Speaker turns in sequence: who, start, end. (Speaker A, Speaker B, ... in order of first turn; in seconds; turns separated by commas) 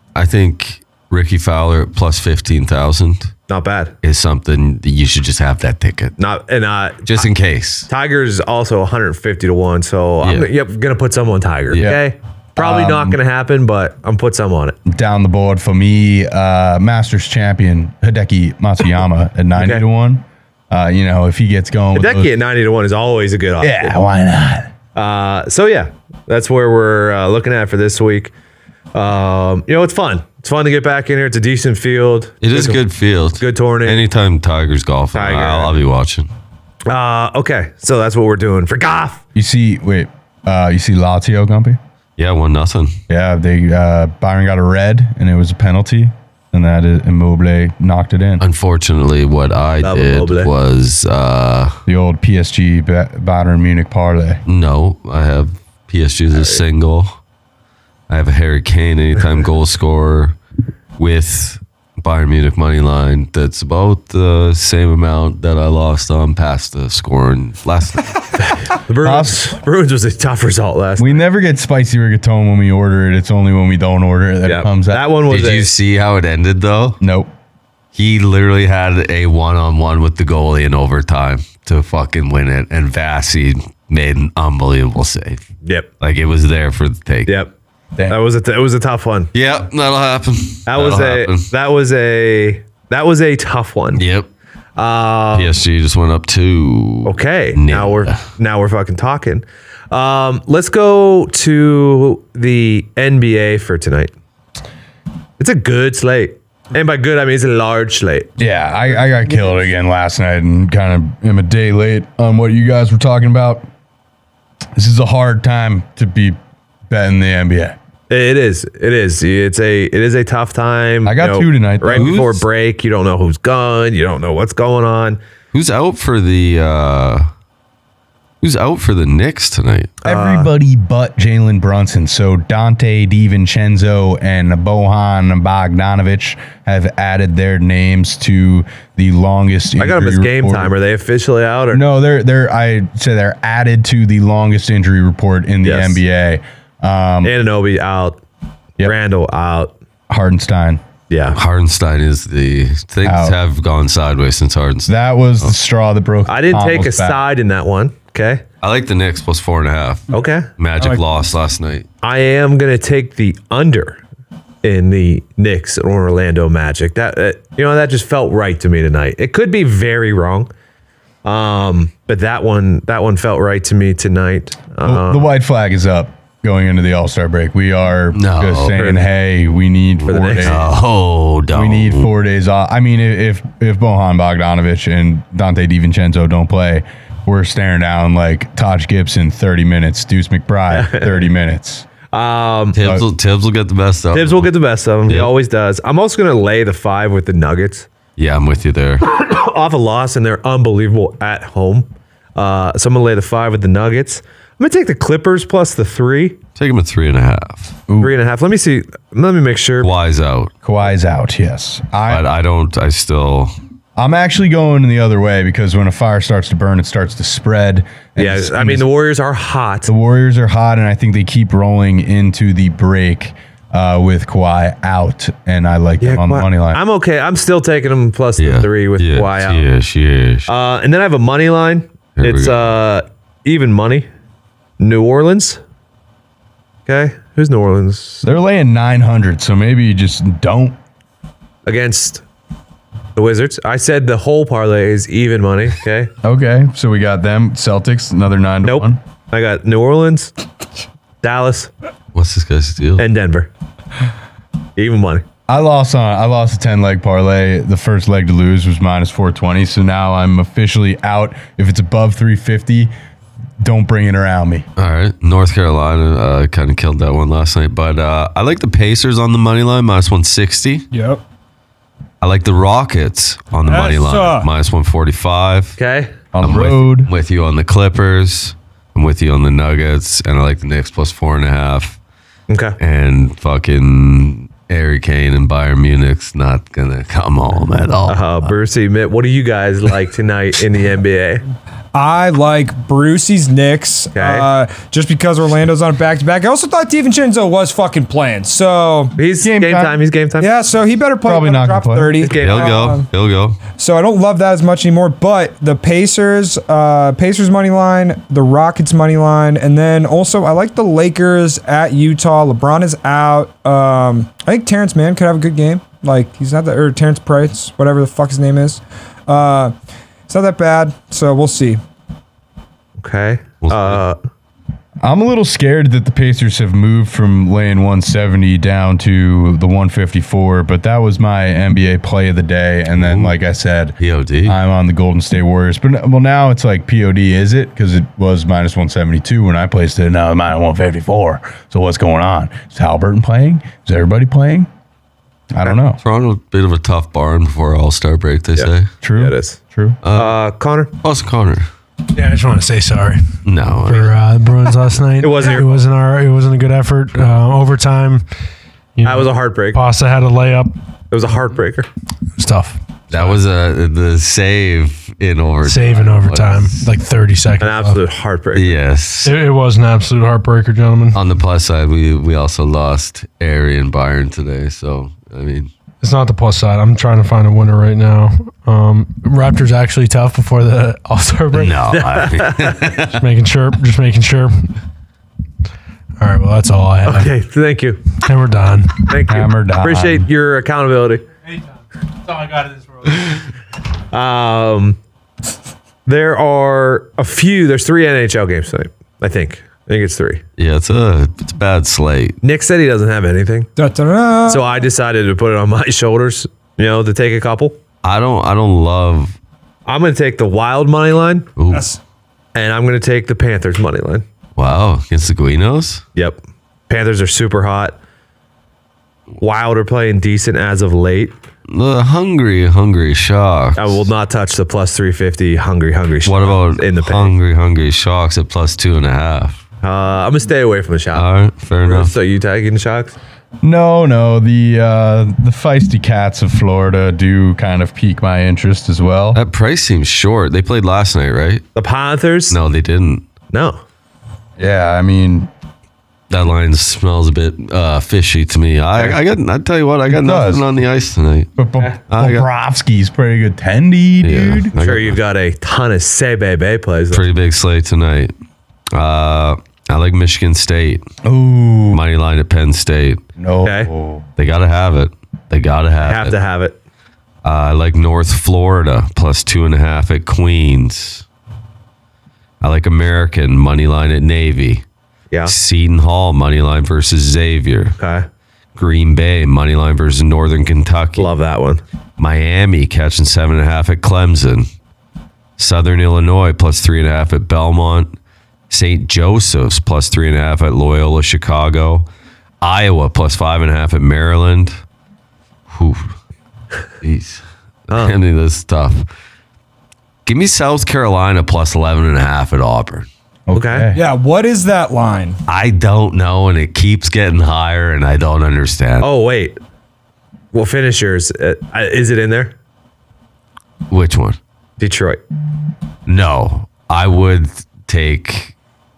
Speaker A: 0.1-3.3, Speaker B: 3.5-3.9, Speaker A: 4.0-6.1, Speaker B: 6.2-7.3, Speaker A: 7.0-7.9, Speaker B: 7.9-14.8, Speaker A: 10.2-10.5, Speaker C: 11.7-12.0, Speaker C: 12.6-13.2, Speaker C: 14.8-22.3, Speaker B: 19.6-19.8, Speaker B: 21.9-23.9, Speaker C: 23.6-24.7, Speaker B: 24.9-28.3, Speaker B: 28.9-32.8, Speaker A: 32.4-36.3, Speaker B: 33.3-34.0, Speaker B: 35.1-35.8, Speaker B: 36.9-39.2, Speaker C: 39.3-41.8, Speaker A: 42.2-42.9, Speaker C: 43.1-48.4, Speaker A: 48.4-51.7, Speaker B: 49.8-50.5, Speaker C: 51.9-54.4, Speaker A: 54.5-57.2, Speaker B: 56.3-56.6, Speaker A: 58.1-60.4, Speaker A: 61.0-68.3, Speaker B: 68.4-71.2, Speaker C: 69.0-69.4, Speaker C: 71.0-75.1, Speaker B: 74.4-75.7, Speaker A: 75.3-77.0, Speaker C: 77.0-77.3, Speaker A: 77.9-85.4, Speaker A: 86.0-87.3, Speaker B: 87.2-87.5, Speaker B: 88.1-89.3, Speaker A: 89.3-91.5, Speaker B: 90.7-94.0, Speaker A: 93.9-94.3, Speaker B: 94.8-95.6, Speaker A: 95.3-98.2, Speaker B: 97.0-104.1, Speaker B: 105.4-108.3, Speaker C: 108.4-113.6, Speaker C: 114.8-116.4, Speaker C: 116.9-117.8, Speaker B: 118.1-125.2, Speaker C: 121.0-122.3, Speaker A: 121.9-122.4, Speaker A: 125.5-127.2, Speaker A: 128.4-129.9, Speaker B: 130.0-130.5, Speaker C: 130.0-140.7, Speaker B: 139.8-141.8, Speaker C: 141.7-147.3, Speaker B: 145.6-146.0, Speaker B: 147.2-148.2, Speaker B: 148.8-149.7, Speaker C: 150.1-150.8, Speaker B: 151.1-151.4, Speaker A: 151.3-155.5, Speaker C: 153.0-153.4, Speaker C: 154.8-157.2, Speaker B: 156.3-158.4, Speaker A: 158.6-161.8, Speaker B: 160.1-160.5, Speaker B: 162.0-164.0, Speaker B: 164.6-170.5, Speaker B: 171.2-175.3, Speaker C: 174.8-180.7, Speaker A: 178.1-178.9, Speaker B: 178.7-179.1, Speaker A: 180.0-182.1, Speaker B: 180.1-180.6, Speaker C: 181.5-191.8, Speaker B: 190.7-191.2, Speaker B: 192.1-192.8, Speaker A: 192.7-194.5, Speaker B: 194.1-197.9, Speaker A: 195.1-195.3, Speaker A: 198.2-199.0, Speaker B: 199.0-206.4, Speaker A: 206.5-207.8, Speaker C: 207.9-208.1, Speaker B: 208.0-209.9, Speaker A: 209.8-210.5, Speaker C: 210.6-212.2, Speaker A: 212.1-213.5, Speaker C: 213.9-218.8, Speaker B: 218.2-219.9, Speaker C: 219.8-226.8, Speaker B: 226.0-229.7, Speaker A: 228.4-230.5, Speaker B: 230.5-234.1, Speaker A: 232.1-232.7, Speaker B: 234.8-235.6, Speaker B: 236.8-238.2, Speaker C: 238.2-240.8, Speaker B: 241.7-242.2, Speaker B: 243.1-246.1, Speaker C: 246.2-249.0, Speaker B: 248.6-250.3, Speaker B: 251.2-251.7, Speaker A: 252.1-253.0, Speaker B: 253.0-253.5, Speaker B: 254.8-255.2, Speaker C: 255.5-262.9, Speaker C: 263.6-264.7, Speaker A: 264.8-270.9, Speaker D: 270.9-271.2, Speaker A: 272.2-275.7, Speaker D: 273.6-274.5, Speaker B: 275.8-276.1, Speaker C: 276.3-277.1, Speaker A: 276.4-282.0, Speaker B: 282.5-282.8, Speaker A: 282.8-288.5, Speaker B: 288.1-291.4, Speaker D: 291.9-299.2, Speaker B: 294.1-294.5, Speaker B: 299.2-300.5, Speaker C: 299.4-300.0, Speaker D: 300.4-303.1, Speaker C: 301.2-302.2, Speaker B: 302.2-302.9, Speaker A: 302.4-303.6, Speaker D: 303.8-319.7, Speaker D: 320.3-321.8, Speaker B: 323.0-324.2, Speaker A: 323.6-324.0, Speaker C: 325.0-344.7, Speaker A: 332.9-333.3, Speaker A: 334.0-334.6, Speaker C: 345.5-346.0, Speaker A: 346.0-348.9, Speaker B: 348.5-349.6, Speaker C: 349.0-350.0, Speaker A: 350.0-350.4, Speaker B: 350.1-350.9, Speaker A: 351.0-351.6, Speaker E: 352.1-358.2, Speaker A: 353.4-354.1, Speaker B: 355.2-355.8, Speaker E: 358.9-360.7, Speaker B: 359.0-359.8, Speaker B: 361.1-361.9, Speaker E: 362.4-363.4, Speaker A: 363.1-366.8, Speaker E: 365.6-368.1, Speaker B: 367.6-368.8, Speaker A: 368.5-369.4, Speaker E: 369.2-371.2, Speaker A: 371.1-375.7, Speaker E: 376.0-381.9, Speaker A: 381.5-383.1, Speaker B: 381.9-383.0, Speaker E: 383.0-384.7, Speaker E: 386.2-387.3, Speaker B: 387.1-388.0, Speaker E: 388.2-389.2, Speaker B: 389.1-391.2, Speaker C: 389.2-390.2, Speaker E: 392.3-393.3, Speaker B: 394.1-395.0, Speaker B: 396.1-400.4, Speaker A: 400.6-402.4, Speaker B: 402.4-403.7, Speaker D: 403.8-404.9, Speaker B: 404.5-407.8, Speaker A: 408.0-409.4, Speaker B: 409.9-411.5, Speaker A: 411.6-411.8, Speaker D: 411.7-412.0, Speaker B: 412.5-414.2, Speaker A: 414.6-416.0, Speaker B: 416.1-418.0, Speaker B: 419.4-421.4, Speaker A: 421.7-424.1, Speaker B: 423.8-427.3, Speaker A: 426.2-429.6, Speaker B: 429.8-431.3, Speaker A: 431.1-432.1, Speaker B: 431.8-433.1, Speaker C: 433.6-439.4, Speaker A: 439.3-441.6, Speaker B: 441.8-442.6, Speaker A: 442.5-443.2, Speaker B: 443.5-443.8, Speaker C: 444.6-445.5, Speaker A: 446.3-451.5, Speaker C: 450.1-450.7, Speaker C: 451.6-454.7, Speaker A: 452.1-452.5, Speaker A: 454.2-455.2, Speaker B: 454.8-457.3, Speaker A: 457.1-458.3, Speaker A: 458.9-461.0, Speaker C: 461.2-462.0, Speaker A: 461.9-463.2, Speaker C: 463.4-464.2, Speaker B: 463.6-463.9, Speaker A: 464.4-466.4, Speaker B: 466.0-466.8, Speaker A: 467.4-471.2, Speaker A: 472.6-474.8, Speaker A: 475.4-477.9, Speaker B: 478.0-478.2, Speaker A: 478.8-481.3, Speaker B: 481.2-481.8, Speaker A: 482.2-484.7, Speaker A: 485.6-488.1, Speaker A: 488.7-492.1, Speaker A: 492.6-494.7, Speaker A: 495.7-496.1, Speaker A: 497.0-499.1, Speaker A: 500.2-503.1, Speaker C: 503.5-504.0, Speaker B: 503.5-503.9, Speaker D: 503.9-505.4, Speaker A: 505.5-509.1, Speaker B: 509.0-509.6, Speaker B: 510.5-512.5, Speaker A: 513.9-514.4, Speaker B: 514.8-515.2, Speaker A: 516.0-518.5